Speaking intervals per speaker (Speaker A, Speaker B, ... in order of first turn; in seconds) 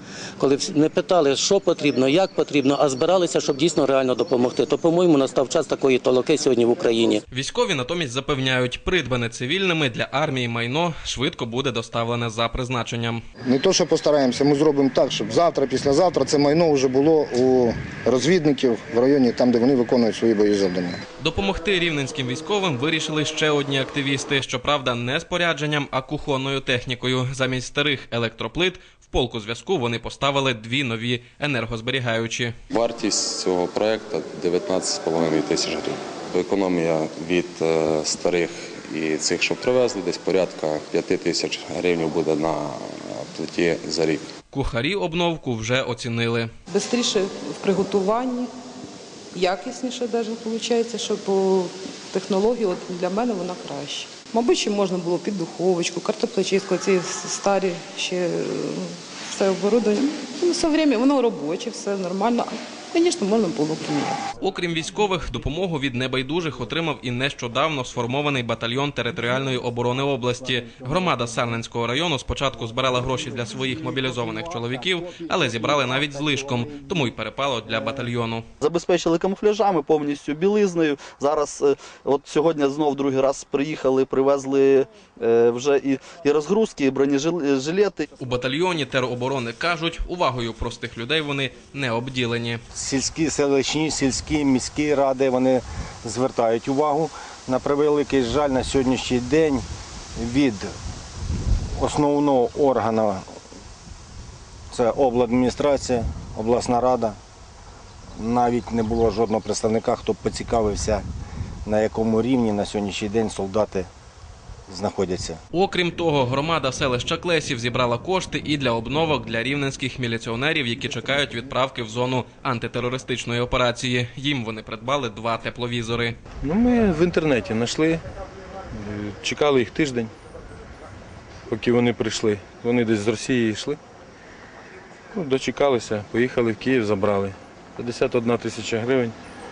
Speaker A: 0.4-7.2
Speaker B: 7.3-13.2, 21.2-32.5, 44.5-46.5, 64.4-78.4, 88.2-92.6, 115.5-126.1
Speaker C: 13.5-21.0
Speaker D: 32.7-44.2
Speaker E: 46.7-48.5, 49.3-64.2
Speaker F: 78.6-88.1
Speaker G: 92.7-99.6, 100.2-100.7, 101.8-103.2, 104.7-107.2, 108.2-111.0, 111.7-113.9, 114.7-115.4
Speaker H: 126.4-128.0, 128.8-130.1, 131.5-133.8, 135.1-139.1